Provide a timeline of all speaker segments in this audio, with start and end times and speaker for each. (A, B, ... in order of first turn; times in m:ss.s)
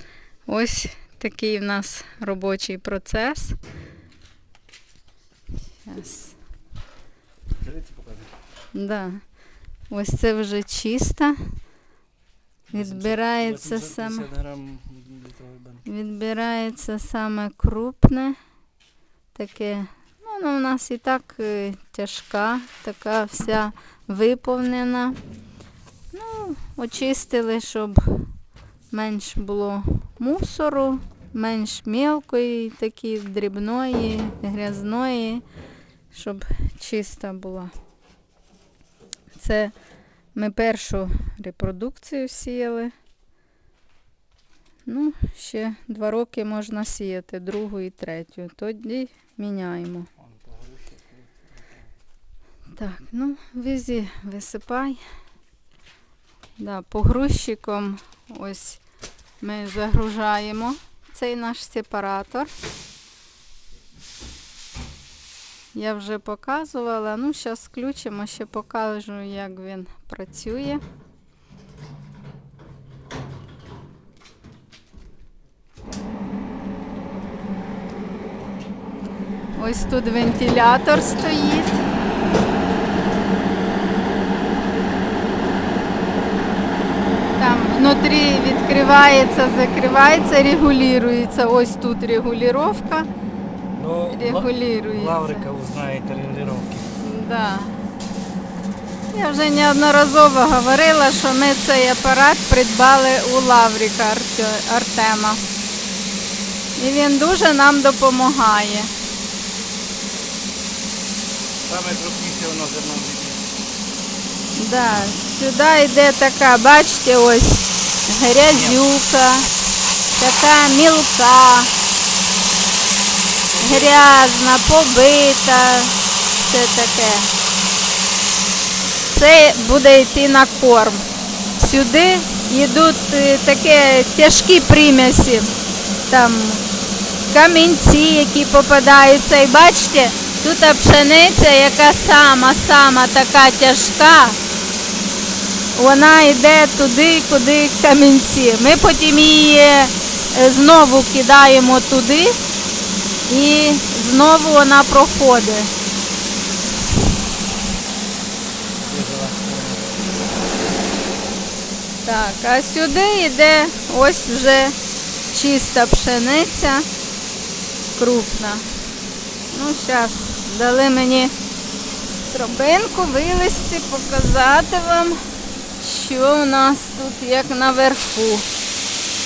0:00.5-0:03.6 A
0:05.9-0:06.3 A
0:07.6-0:08.3 B
0:08.7-0:09.2 A
0:09.9-0:11.6 A
0:12.7-0:15.8 B
0:12.7-0:14.2 A
0:15.9-0:18.4 A
0:19.4-0:25.2 A
0:26.1-0:28.3 A
0:28.9-0:35.4 A
0:36.1-0:37.7 A
0:39.4-0:39.7 A
0:40.3-0:42.9 A
0:44.9-0:50.1 A
0:50.4-0:51.0 B
0:52.7-0:55.0 A
0:56.6-0:58.8 A
0:59.4-1:02.5 A
1:05.7-1:10.8 A
1:19.6-1:21.8 A
1:27.4-1:33.1 A
1:33.8-1:36.9 B
1:34.1-1:35.5 A
1:37.0-1:37.7 A
1:39.1-1:45.4 A
1:46.8-1:48.9 A
1:51.7-1:53.5 B
1:54.6-1:59.5 A
1:58.5-1:58.8 B
2:00.2-2:01.7 A
2:03.5-2:04.2 B
2:03.6-2:07.3 A
2:09.1-2:11.1 A
2:11.6-2:15.5 A
2:16.1-2:16.6 A
2:17.3-2:24.4 A
2:25.8-2:32.4 A
2:33.3-2:35.7 A
2:38.8-2:40.0 B
2:42.0-2:44.8 A
2:45.3-2:46.9 A
2:48.0-2:48.7 A
2:49.5-2:51.3 A
2:52.3-2:55.2 A
2:55.8-2:58.5 A